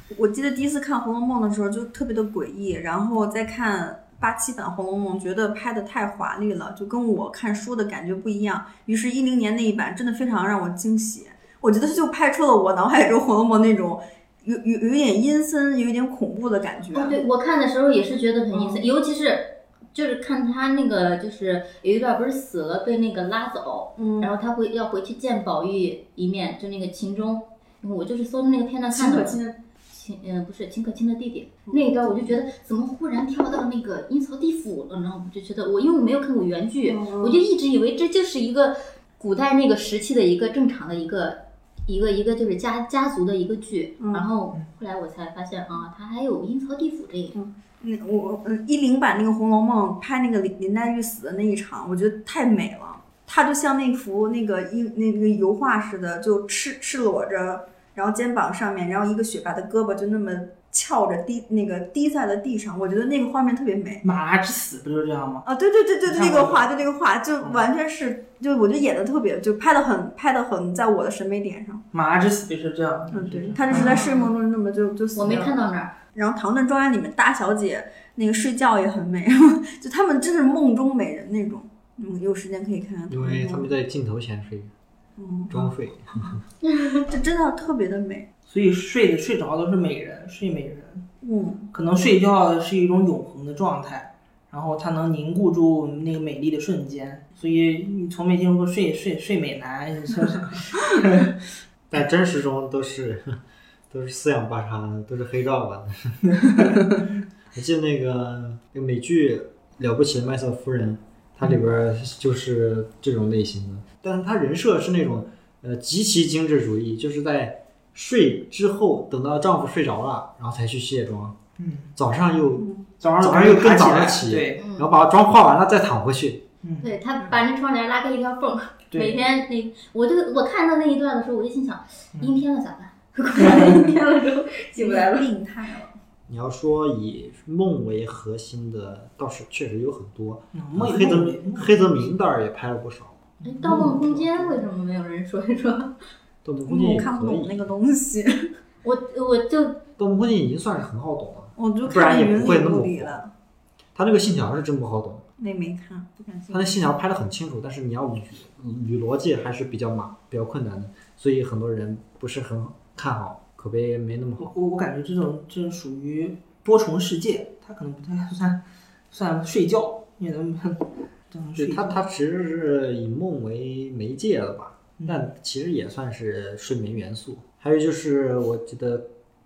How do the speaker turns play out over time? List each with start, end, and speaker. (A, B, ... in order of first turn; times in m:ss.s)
0:00.1-0:17.2 A
0:16.9-0:47.4 B
0:18.5-0:18.8 A
0:24.0-0:24.3 A
0:28.9-0:29.6 A
0:31.7-0:32.3 A
0:36.8-0:37.4 A
0:44.0-0:44.3 A
0:47.3-1:04.0 A
1:04.0-1:05.4 C
1:05.4-1:11.8 A
1:06.0-1:06.7 C
1:11.9-1:14.0 C
1:13.1-1:23.7 A
1:13.7-1:14.2 B
1:15.1-1:16.0 B
1:23.1-1:24.7 D
1:25.2-1:26.4 A
1:25.5-1:26.4 D
1:26.7-1:27.0 B
1:27.0-1:28.3 A
1:28.5-1:31.1 C
1:31.2-1:31.7 A
1:31.7-1:41.4 C
1:41.9-1:46.2 D
1:47.5-2:01.4 D
2:01.6-2:01.9 C
2:02.0-2:02.7 D
2:02.6-2:02.9 A
2:03.0-2:04.6 C
2:03.2-2:06.4 D
2:04.6-2:04.9 B
2:06.6-2:06.9 C
2:06.8-2:15.3 B
2:08.9-2:09.2 C
2:13.4-2:13.8 C
2:14.8-2:15.9 A
2:16.3-2:23.2 D
2:20.5-2:21.9 C
2:23.4-2:26.0 B
2:23.4-2:24.2 C
2:26.4-2:27.7 D
2:26.7-2:28.5 A
2:28.8-2:29.8 B
2:30.0-2:33.2 D
2:31.6-2:33.3 A
2:33.9-2:35.2 D
2:35.4-2:36.8 A
2:36.5-2:44.5 D
2:44.4-2:52.0 C
2:51.6-2:59.1 D
2:55.0-2:55.3 C